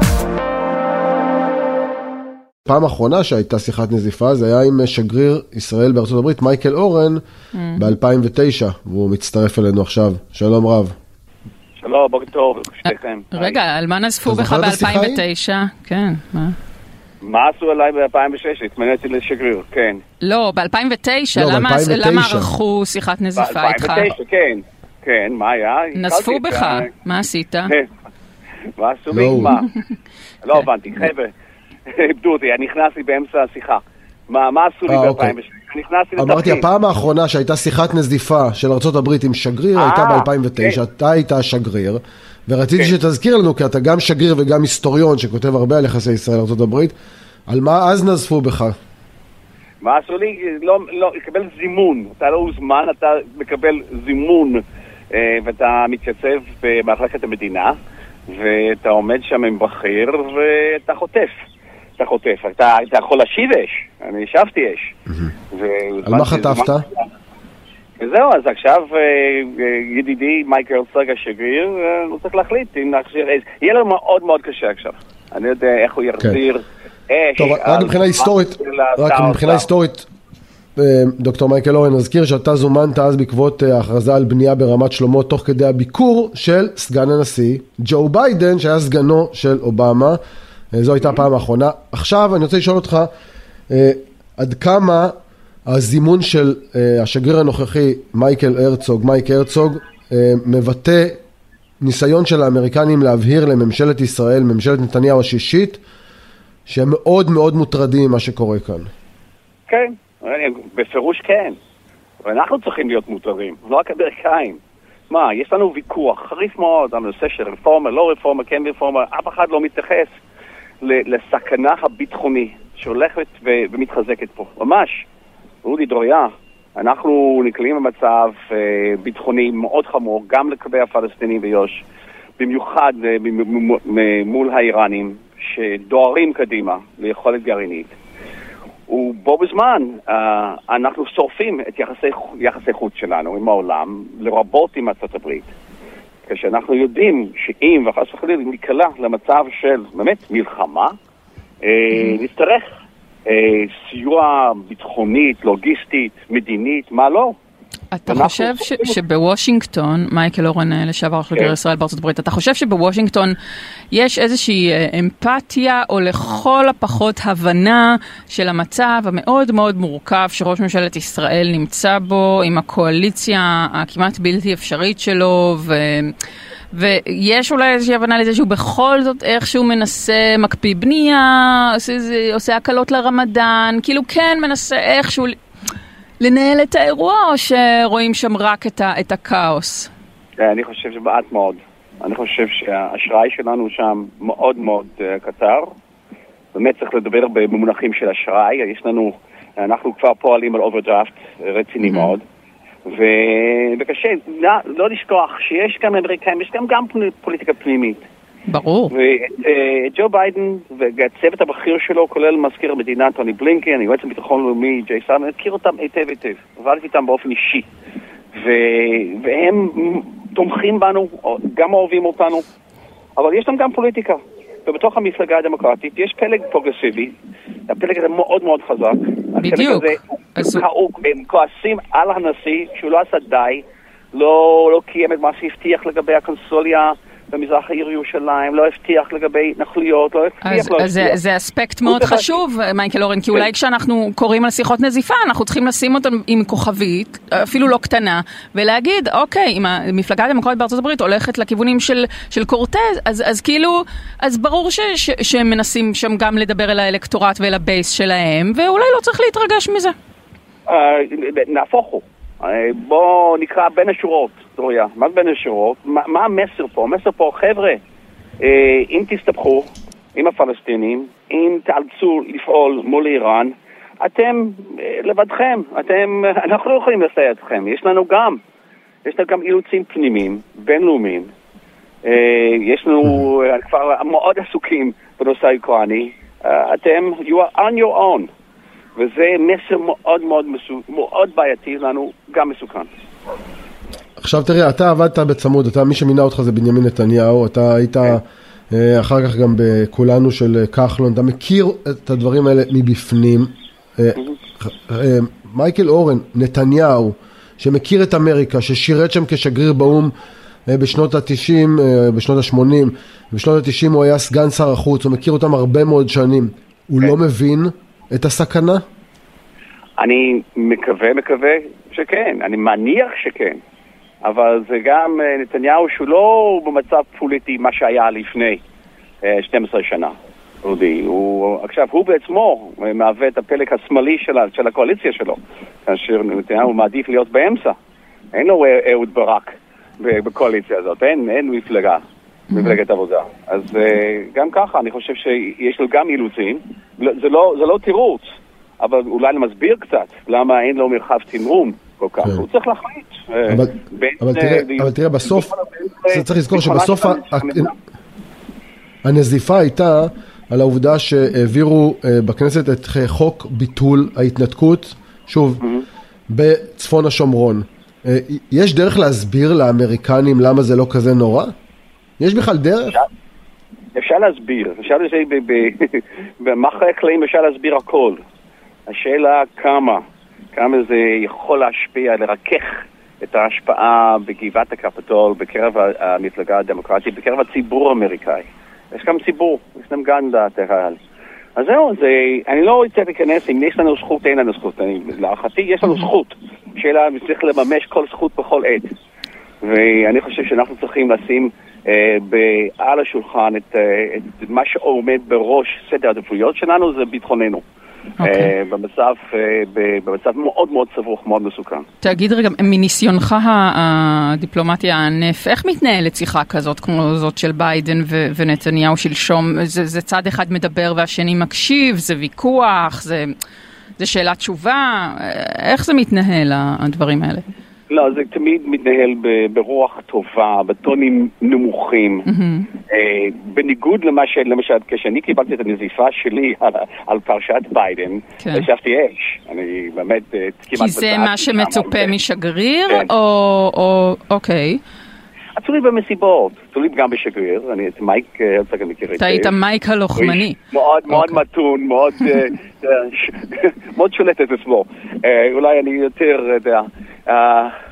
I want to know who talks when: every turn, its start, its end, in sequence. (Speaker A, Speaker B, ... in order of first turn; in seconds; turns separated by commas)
Speaker A: 2.6-7.2, Speaker B: 7.5-7.8, Speaker A: 7.7-10.9, Speaker C: 11.8-13.6, Speaker B: 12.9-16.6, Speaker A: 14.2-15.2, Speaker C: 17.2-20.0, Speaker B: 20.2-24.1, Speaker A: 21.3-22.5, Speaker C: 23.4-26.9, Speaker B: 25.9-27.7, Speaker C: 28.8-29.7, Speaker A: 29.1-29.5, Speaker C: 30.4-31.3, Speaker C: 31.9-36.6, Speaker A: 34.9-35.3, Speaker A: 36.2-46.9, Speaker C: 39.7-40.8, Speaker A: 47.5-48.7, Speaker C: 49.8-57.7, Speaker C: 58.3-61.3, Speaker C: 62.0-64.9, Speaker C: 65.5-67.0, Speaker A: 66.0-66.8, Speaker C: 68.0-79.7, Speaker A: 77.4-80.1, Speaker A: 80.8-90.2, Speaker A: 90.7-93.1, Speaker A: 93.7-95.1, Speaker A: 95.7-101.2, Speaker A: 101.8-105.8, Speaker A: 106.7-108.9, Speaker C: 109.7-111.5, Speaker C: 112.2-114.6, Speaker C: 115.1-120.2, Speaker C: 120.8-125.0, Speaker C: 125.6-131.8, Speaker C: 132.4-137.9, Speaker C: 138.9-145.5, Speaker C: 146.2-150.9, Speaker C: 151.6-152.7, Speaker B: 151.9-152.2, Speaker C: 153.3-157.3, Speaker B: 157.9-163.3, Speaker C: 158.1-159.0, Speaker B: 163.9-176.1, Speaker B: 176.7-185.3, Speaker B: 186.2-189.9, Speaker C: 190.4-195.7, Speaker C: 196.5-202.2, Speaker B: 201.8-202.1, Speaker C: 202.8-208.0, Speaker B: 208.5-208.9, Speaker C: 208.9-217.7, Speaker C: 218.3-222.4, Speaker C: 223.2-227.1, Speaker C: 227.7-241.2, Speaker B: 229.4-230.6, Speaker B: 240.4-259.9, Speaker C: 241.8-242.4, Speaker C: 260.7-267.8, Speaker C: 268.4-278.4, Speaker C: 279.0-281.3, Speaker C: 282.0-288.3, Speaker C: 288.9-292.9, Speaker A: 294.2-310.1, Speaker A: 310.7-318.8, Speaker C: 320.0-323.6, Speaker C: 324.2-328.6, Speaker C: 329.2-337.7, Speaker C: 338.3-342.0, Speaker B: 342.5-342.8, Speaker C: 342.5-357.7, Speaker A: 353.5-355.5, Speaker A: 356.1-357.7, Speaker A: 359.0-365.6, Speaker C: 365.6-365.9, Speaker A: 366.3-371.5, Speaker A: 372.2-373.0, Speaker C: 373.9-378.2, Speaker C: 378.9-380.0, Speaker C: 380.5-391.0, Speaker C: 391.6-398.9, Speaker C: 399.6-407.6, Speaker B: 408.2-408.5, Speaker C: 408.2-411.9, Speaker B: 412.0-423.3, Speaker B: 424.0-427.4, Speaker C: 427.9-432.2, Speaker B: 432.2-432.7, Speaker C: 432.9-442.1, Speaker B: 438.4-438.6, Speaker B: 440.7-444.8, Speaker C: 445.6-449.5, Speaker B: 449.2-450.6, Speaker C: 450.1-457.7, Speaker B: 451.1-451.4